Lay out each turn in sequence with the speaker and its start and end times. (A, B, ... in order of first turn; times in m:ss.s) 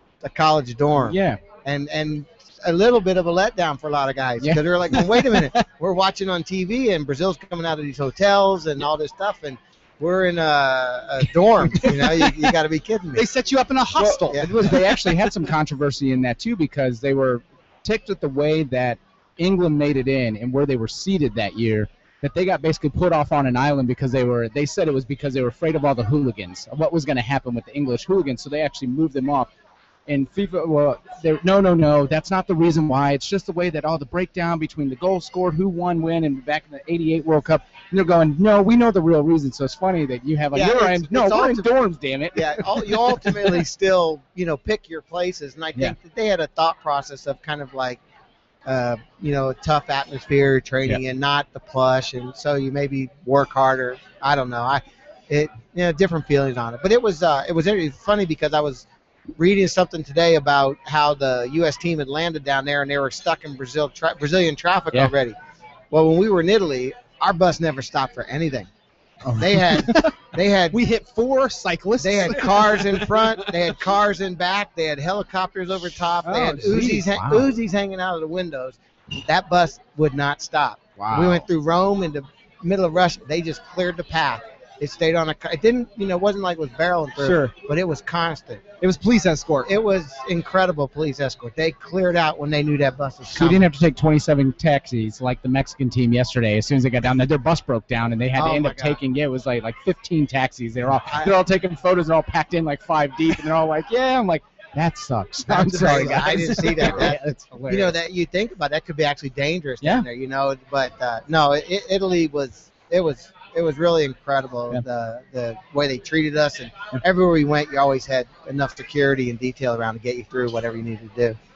0:00.2-0:13.3 A
0:01.0-0:01.4 B
0:04.4-0:05.0 B
0:11.7-0:12.4 C
0:13.1-0:15.2 C
0:14.0-0:29.5 B
0:30.1-0:43.6 B
0:40.5-0:41.7 A
0:42.3-0:48.0 A
0:48.6-0:58.8 A
0:59.4-1:05.4 A
1:05.9-1:08.7 A
1:09.2-1:09.9 B
1:09.3-1:10.8 A
1:09.8-1:10.1 C
1:10.7-1:13.5 C
1:12.0-1:28.6 A
1:16.2-1:17.0 C
1:16.6-1:17.5 B
1:21.0-1:21.4 B
1:27.2-1:27.5 C
1:28.8-1:29.7 C
1:29.7-1:33.6 A
1:33.3-1:48.0 B
1:38.4-1:39.0 A
1:45.5-2:01.4 A